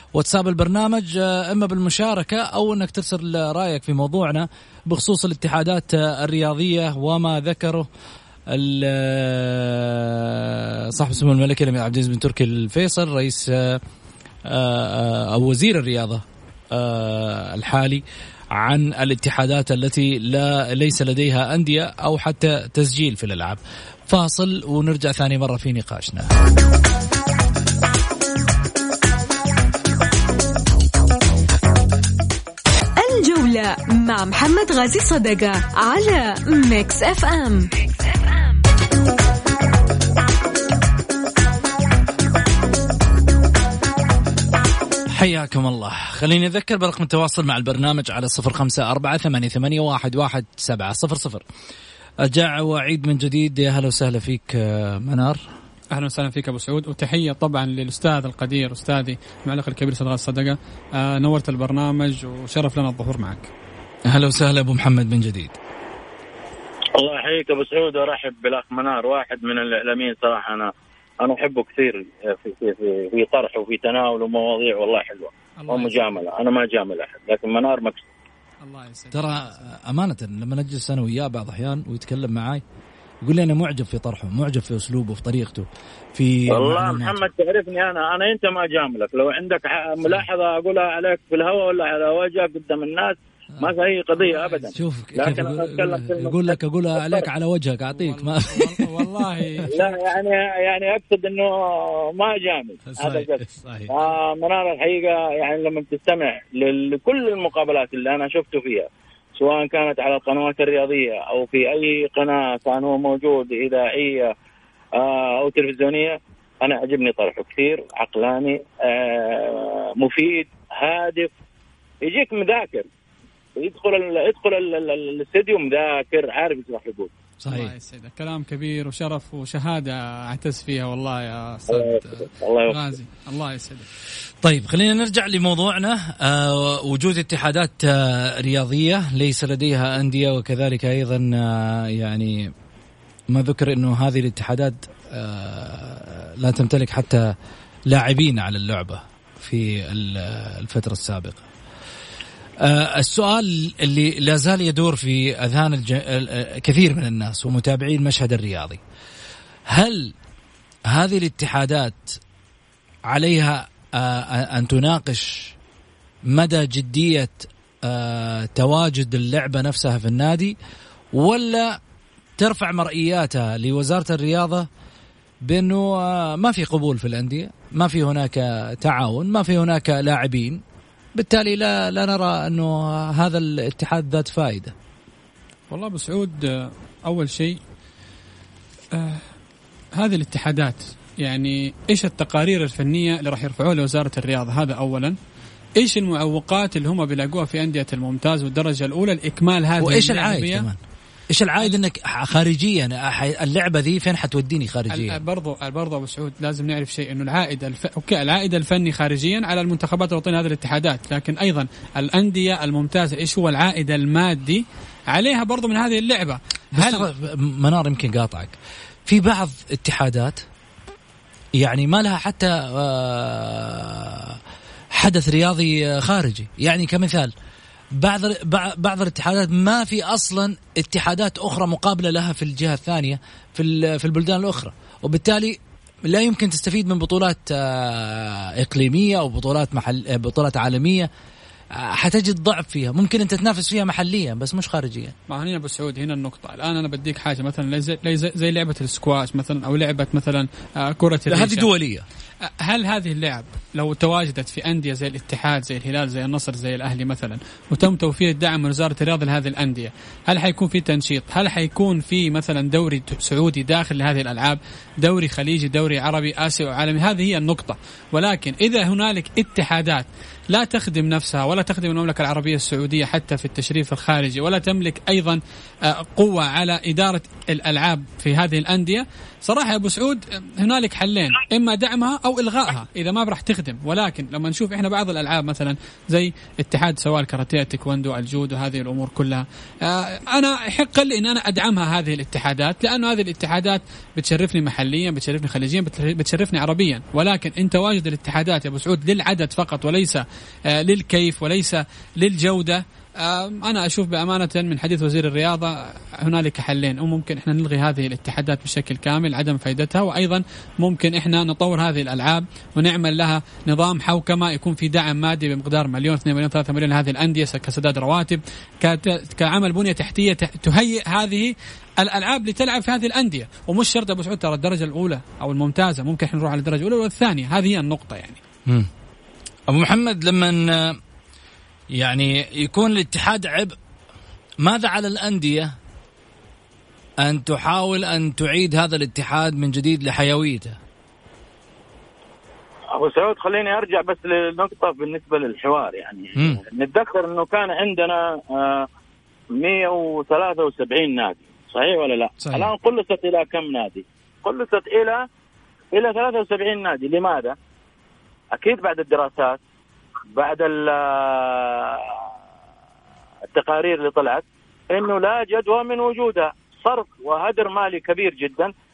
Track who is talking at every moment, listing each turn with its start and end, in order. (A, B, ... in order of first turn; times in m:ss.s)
0:00.1-0:07.9 A
0:08.5-0:13.8 A
0:14.4-0:18.0 A
0:18.5-0:26.3 A
0:33.0-0:38.5 B
0:45.1-0:51.4 A
0:52.2-0:55.4 A
0:55.9-1:03.5 C
1:04.0-1:05.6 A
1:07.0-1:10.7 D
1:11.2-1:18.0 D
1:15.6-1:16.2 C
1:18.6-1:19.5 C
1:19.1-1:22.6 A
1:23.2-1:27.2 A
1:26.5-1:37.3 D
1:34.2-1:34.7 C
1:34.7-1:38.9 A
1:37.9-1:39.9 C
1:39.7-1:54.3 D
1:42.9-1:43.9 A
1:55.0-2:01.3 D
2:02.0-2:02.9 D
2:03.6-2:07.1 D
2:07.4-2:07.7 A
2:07.5-2:13.9 C
2:11.7-2:12.9 D
2:14.4-2:22.5 A
2:23.3-2:27.3 A
2:27.9-2:31.4 A
2:32.6-2:38.8 A
2:39.7-2:40.1 A
2:40.9-2:42.2 A
2:43.1-2:45.5 A
2:46.3-2:50.6 A
2:51.1-2:51.8 A
2:52.4-2:54.7 A
2:55.4-3:00.6 A
3:01.1-3:04.7 A
3:05.7-3:07.6 C
3:08.9-3:09.3 C
3:09.9-3:15.2 C
3:15.8-3:20.7 C
3:19.8-3:20.8 A
3:21.3-3:25.2 A
3:24.9-3:37.1 C
3:36.7-3:40.4 A
3:41.6-3:44.4 A
3:44.9-3:47.3 A
3:47.9-4:01.1 A
4:01.8-4:05.1 A
4:05.3-4:11.7 C
4:11.3-4:12.0 A
4:12.6-5:28.4 C
5:29.7-5:31.0 A
5:31.9-5:33.8 A
5:34.6-5:35.7 A
5:37.2-5:40.8 A
5:42.9-5:48.9 D
5:49.5-5:55.2 D
5:55.9-5:57.6 D
5:58.5-5:59.6 D
6:00.3-6:02.1 D
6:03.5-6:08.7 D